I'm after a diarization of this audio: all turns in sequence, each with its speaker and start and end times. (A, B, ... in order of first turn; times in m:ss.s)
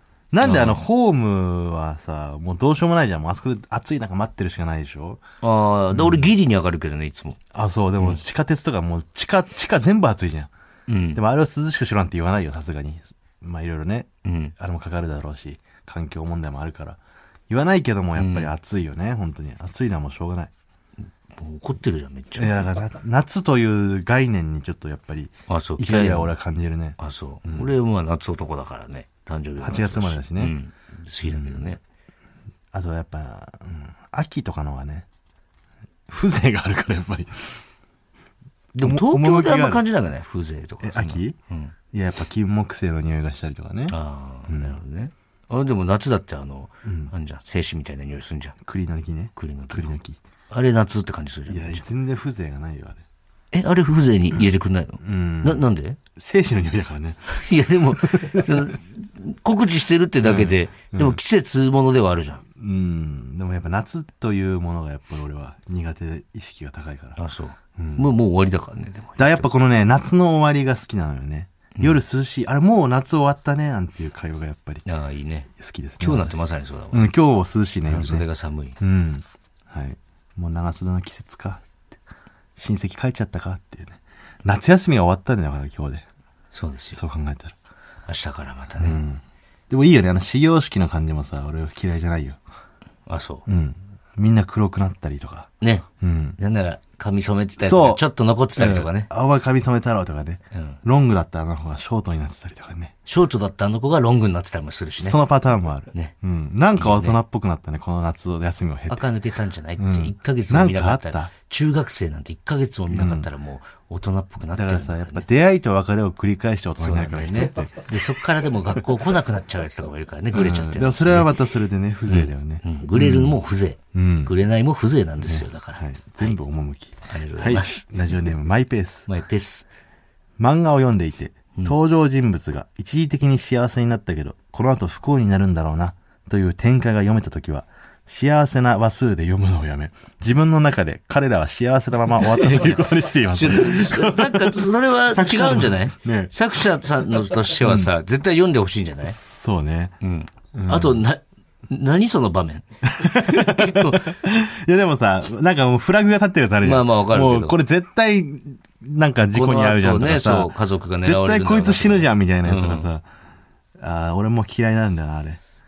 0:00.3-0:05.2 A
0:00.4-0:00.8 B
0:05.4-0:07.4 B
0:05.9-0:06.3 A
0:07.5-0:10.5 A
0:10.9-0:11.2 B
0:11.1-0:20.5 A
0:14.2-0:14.5 B
0:18.2-0:18.5 B
0:21.3-0:22.7 B
0:22.4-0:27.7 A
0:25.5-0:26.3 B
0:27.0-0:31.8 B
0:29.6-0:30.5 A
0:31.2-0:31.7 A
0:32.7-0:35.0 A
0:36.1-0:37.6 A
0:38.7-0:41.7 B
0:38.8-0:39.8 A
0:40.8-0:41.4 A
0:41.9-0:44.0 A
0:43.9-0:48.6 B
0:44.5-0:44.8 A
0:46.8-0:47.1 A
0:48.6-0:50.2 A
0:49.4-0:50.0 B
0:50.5-0:51.8 B
0:51.5-0:53.0 A
0:53.5-0:56.0 B
0:55.0-0:55.6 A
0:56.2-0:58.7 A
0:57.3-1:02.4 B
1:00.2-1:01.2 A
1:02.6-1:07.2 A
1:07.2-1:09.5 B
1:07.8-1:08.1 A
1:09.2-1:14.8 A
1:14.8-1:15.5 B
1:15.6-1:16.3 A
1:16.0-1:17.1 B
1:16.9-1:18.2 A
1:17.8-1:18.8 B
1:18.8-1:21.6 A
1:22.6-1:26.0 A
1:26.5-1:27.0 B
1:26.9-1:27.5 A
1:28.1-1:29.0 B
1:28.8-1:32.4 A
1:33.1-1:33.4 B
1:33.4-1:35.5 A
1:35.6-1:35.9 B
1:36.0-1:36.4 A
1:36.4-1:39.1 B
1:37.6-1:38.0 A
1:38.6-1:42.9 A
1:40.5-1:40.8 B
1:43.0-1:45.2 B
1:45.0-1:49.1 A
1:46.8-1:47.2 B
1:48.9-1:55.2 B
1:49.8-1:51.3 A
1:52.9-1:53.3 A
1:54.5-1:58.8 A
1:56.8-2:01.3 B
2:00.3-2:03.4 A
2:02.1-2:06.4 B
2:03.9-2:04.3 A
2:05.2-2:09.1 A
2:07.1-2:07.9 B
2:09.1-2:09.7 B
2:10.4-2:26.6 A
2:22.3-2:29.2 B
2:27.6-2:27.9 A
2:29.0-2:29.9 A
2:30.0-2:34.1 B
2:30.5-2:31.0 A
2:32.8-2:43.0 A
2:36.6-2:37.6 B
2:39.3-2:42.9 B
2:43.8-2:45.4 A